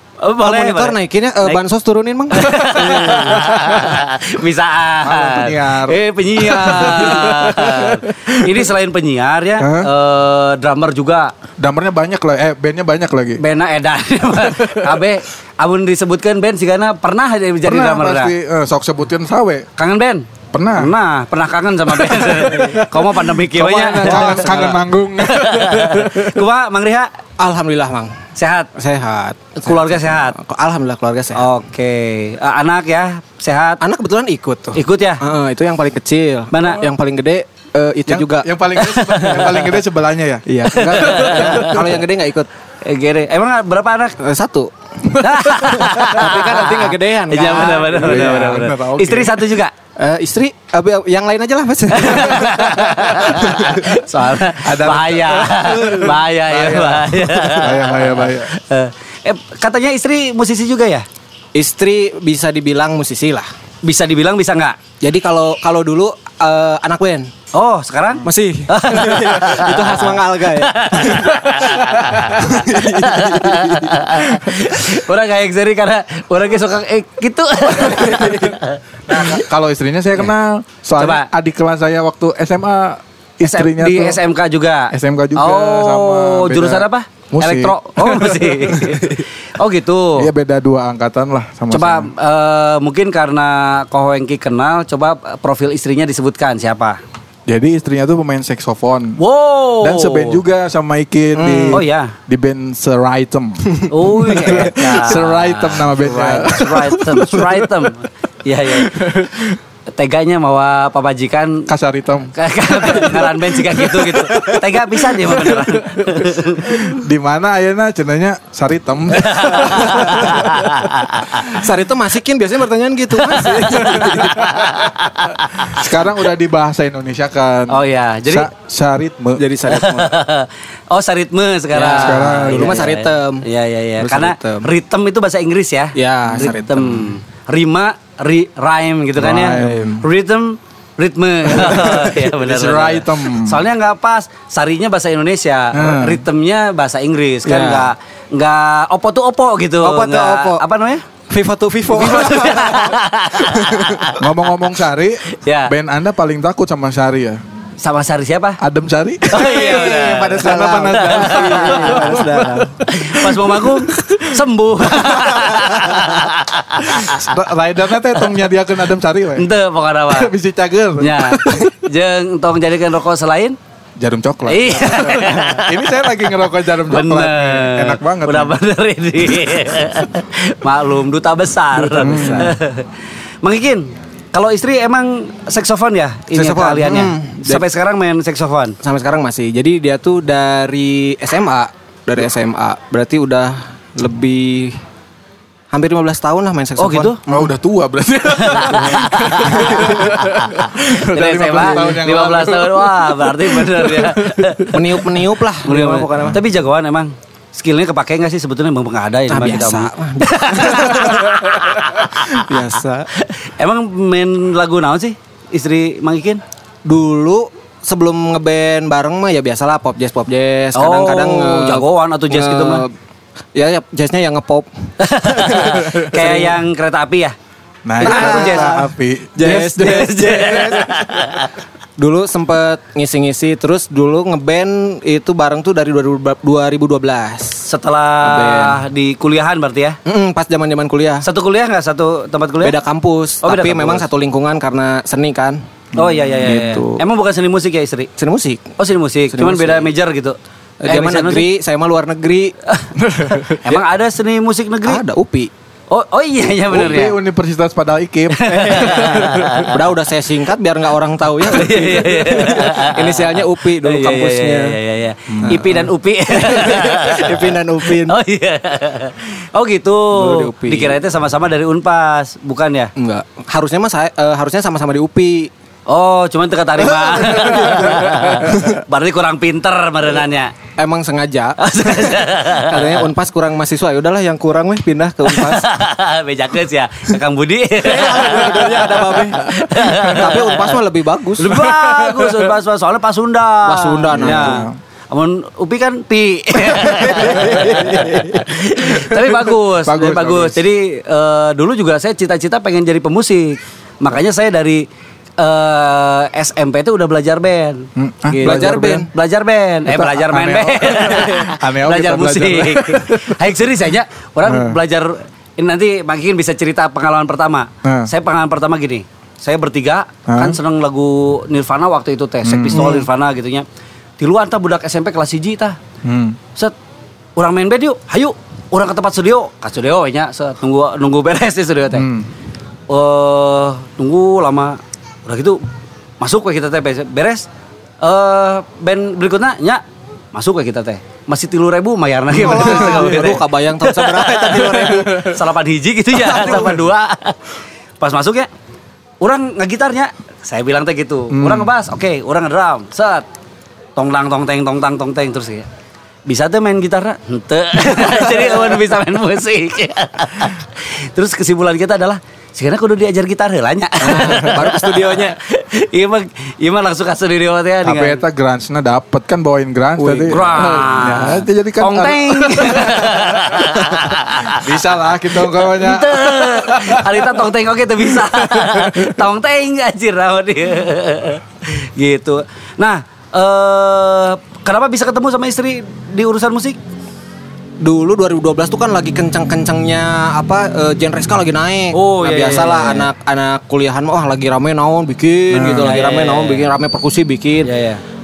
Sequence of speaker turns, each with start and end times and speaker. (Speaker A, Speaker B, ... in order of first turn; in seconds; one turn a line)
Speaker A: 0.2-1.6
Speaker B: 0.4-3.1
Speaker A: 2.3-11.3
Speaker C: 2.6-4.0
Speaker C: 5.0-8.6
Speaker C: 9.6-9.9
Speaker C: 11.6-13.4
Speaker A: 13.4-18.3
Speaker C: 14.4-15.1
Speaker C: 17.6-19.7
Speaker A: 19.8-27.1
Speaker C: 20.5-20.9
Speaker C: 21.9-26.4
Speaker B: 23.6-24.8
Speaker B: 27.4-28.1
Speaker A: 28.4-28.7
Speaker B: 28.8-31.5
Speaker A: 29.6-30.4
Speaker A: 31.4-33.8
Speaker B: 33.8-39.6
Speaker A: 34.8-35.2
Speaker A: 36.5-36.9
Speaker C: 38.1-42.0
Speaker A: 39.0-39.4
Speaker B: 40.5-42.5
Speaker A: 40.8-41.8
Speaker A: 42.8-44.2
Speaker B: 44.2-44.7
Speaker A: 45.1-49.7
Speaker C: 45.2-46.0
Speaker B: 45.5-48.6
Speaker C: 47.8-49.5
Speaker B: 50.0-54.0
Speaker A: 51.9-61.1
Speaker C: 52.8-53.5
Speaker C: 54.5-58.5
Speaker B: 55.8-56.1
Speaker B: 61.5-63.5
Speaker A: 63.8-64.8
Speaker B: 65.0-67.3
Speaker A: 67.5-79.4
Speaker B: 68.2-74.2
Speaker B: 78.1-78.4
Speaker C: 79.1-84.2
Speaker A: 81.0-81.3
Speaker A: 83.4-90.3
Speaker C: 84.9-89.2
Speaker C: 90.2-92.1
Speaker A: 91.7-97.0
Speaker C: 97.5-99.2
Speaker A: 99.2-100.4
Speaker C: 99.8-107.8
Speaker B: 101.3-101.8
Speaker A: 101.7-102.1
Speaker A: 103.9-109.3
Speaker C: 108.7-109.6
Speaker A: 109.9-111.7
Speaker C: 111.7-121.1
Speaker A: 112.3-117.0
Speaker A: 119.2-121.5
Speaker B: 120.0-120.2
Speaker B: 121.3-124.7
Speaker A: 123.3-125.9
Speaker C: 123.7-129.4
Speaker A: 127.7-128.5
Speaker B: 129.4-130.2
Speaker A: 129.7-151.0
Speaker B: 131.7-133.4
Speaker C: 131.9-132.8
Speaker B: 134.0-134.7
Speaker B: 136.0-137.1
Speaker C: 139.2-140.1
Speaker B: 139.5-140.0
Speaker C: 141.5-143.7
Speaker C: 145.7-146.2
Speaker B: 147.4-147.9
Speaker B: 149.8-150.6
Speaker B: 151.3-154.1
Speaker A: 151.9-154.3
Speaker C: 154.2-157.4
Speaker A: 155.3-155.7
Speaker A: 157.8-158.6
Speaker C: 158.6-166.1
Speaker A: 159.3-162.2
Speaker B: 159.3-162.8
Speaker A: 162.9-167.4
Speaker C: 166.8-169.5
Speaker A: 169.4-170.3
Speaker C: 170.1-171.7
Speaker A: 171.0-173.6
Speaker C: 174.0-178.6
Speaker A: 174.5-182.9
Speaker C: 181.9-182.6
Speaker B: 182.0-182.5
Speaker A: 183.4-188.8
Speaker B: 186.3-187.7
Speaker B: 188.8-194.8
Speaker B: 195.7-197.4
Speaker A: 196.8-197.2
Speaker C: 197.3-205.0
Speaker A: 198.3-205.0
Speaker B: 199.6-200.1
Speaker B: 201.6-201.9
Speaker B: 204.7-206.4
Speaker A: 205.6-216.4
Speaker B: 209.3-213.1
Speaker B: 216.9-222.9
Speaker A: 220.8-222.8
Speaker B: 223.6-226.6
Speaker A: 225.0-227.3
Speaker C: 227.9-230.1
Speaker A: 228.0-228.8
Speaker B: 228.0-231.2
Speaker A: 229.4-231.5
Speaker B: 232.0-237.7
Speaker A: 237.7-240.0
Speaker B: 238.2-238.8
Speaker B: 240.1-241.3
Speaker A: 241.2-242.8
Speaker B: 242.6-245.6
Speaker A: 243.4-244.1
Speaker A: 245.9-248.1
Speaker B: 246.4-247.0
Speaker B: 248.2-248.8
Speaker A: 248.8-251.5
Speaker B: 249.3-249.9
Speaker B: 250.8-252.6
Speaker A: 252.7-255.0
Speaker C: 253.0-253.6
Speaker B: 254.8-255.5
Speaker A: 255.9-257.2
Speaker C: 256.7-259.7
Speaker A: 258.3-259.8
Speaker B: 258.5-264.8
Speaker A: 261.4-272.9
Speaker C: 265.3-265.9
Speaker B: 266.3-268.2
Speaker B: 270.1-271.0
Speaker B: 273.0-275.5
Speaker A: 275.9-280.5
Speaker B: 276.8-278.8
Speaker B: 280.8-285.7
Speaker A: 281.6-283.0
Speaker A: 285.3-290.7
Speaker B: 287.8-291.7
Speaker A: 291.4-304.9
Speaker C: 291.8-292.3
Speaker B: 293.6-294.6
Speaker C: 294.1-294.8
Speaker B: 296.9-298.4
Speaker C: 298.6-300.6
Speaker A: 305.4-323.7
Speaker C: 308.0-309.1
Speaker B: 308.3-309.1
Speaker C: 309.9-313.4
Speaker C: 314.4-314.8
Speaker C: 317.8-318.1
Speaker C: 320.3-320.6
Speaker C: 322.4-323.0
Speaker B: 322.7-323.0
Speaker A: 324.2-325.8
Speaker C: 326.0-326.4
Speaker A: 327.4-332.1
Speaker C: 331.9-332.3
Speaker A: 332.9-335.6
Speaker A: 336.2-337.5
Speaker A: 338.0-347.4
Speaker B: 342.3-345.4
Speaker B: 346.2-346.8
Speaker A: 348.0-348.5
Speaker A: 349.2-353.3
Speaker C: 351.3-351.7
Speaker A: 354.0-355.7
Speaker A: 356.3-368.2
Speaker B: 358.1-358.4
Speaker B: 364.0-365.4
Speaker C: 367.8-377.5
Speaker B: 370.0-370.9
Speaker A: 370.3-374.7
Speaker A: 375.4-386.8
Speaker C: 378.0-379.2
Speaker B: 387.8-397.7
Speaker A: 391.9-393.1
Speaker C: 395.5-396.0
Speaker A: 395.8-396.6
Speaker A: 397.6-398.0